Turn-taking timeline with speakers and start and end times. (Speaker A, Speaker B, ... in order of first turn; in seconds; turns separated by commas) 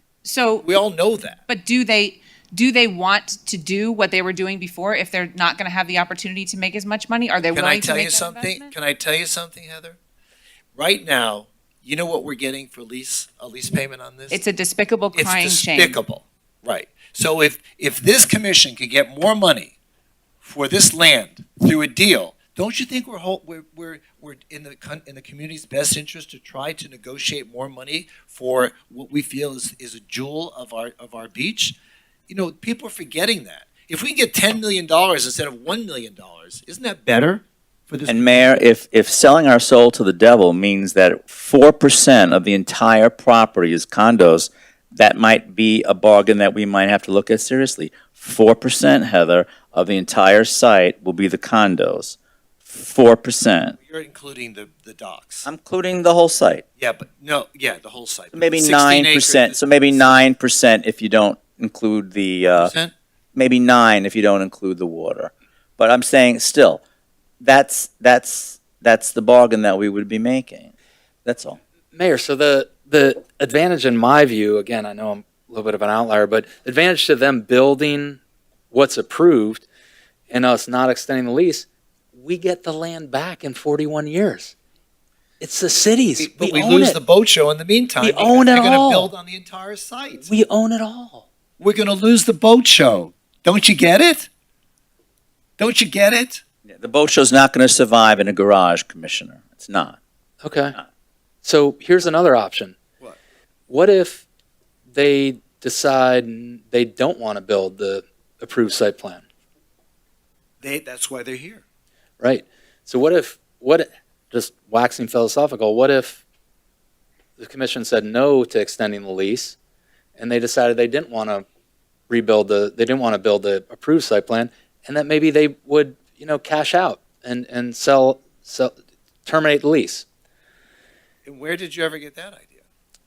Speaker A: 0.2-0.7, Speaker B: 0.6-1.4, Speaker A: 1.5-8.7, Speaker B: 7.5-10.0, Speaker B: 10.7-14.4, Speaker A: 14.3-16.0, Speaker B: 15.1-19.7, Speaker B: 20.4-31.8, Speaker B: 32.3-38.5, Speaker C: 38.1-53.8, Speaker B: 53.8-55.5, Speaker C: 55.4-56.6, Speaker B: 56.8-60.2, Speaker C: 58.3-62.7, Speaker B: 62.5-62.9, Speaker C: 63.3-66.8, Speaker C: 67.4-70.7, Speaker C: 71.2-71.6, Speaker D: 71.9-78.2, Speaker D: 78.7-79.7, Speaker D: 80.3-84.5, Speaker D: 85.4-87.0, Speaker B: 86.2-90.3, Speaker D: 88.0-89.1, Speaker D: 90.2-91.2, Speaker B: 91.6-94.3, Speaker B: 95.6-96.4, Speaker C: 96.7-100.0, Speaker D: 100.4-100.8, Speaker D: 101.4-102.8, Speaker D: 103.7-104.2, Speaker D: 104.9-109.2, Speaker B: 110.6-111.6, Speaker D: 112.2-116.2, Speaker D: 117.4-119.5, Speaker D: 120.2-121.4, Speaker D: 122.1-128.7, Speaker D: 129.2-130.1, Speaker B: 131.2-132.6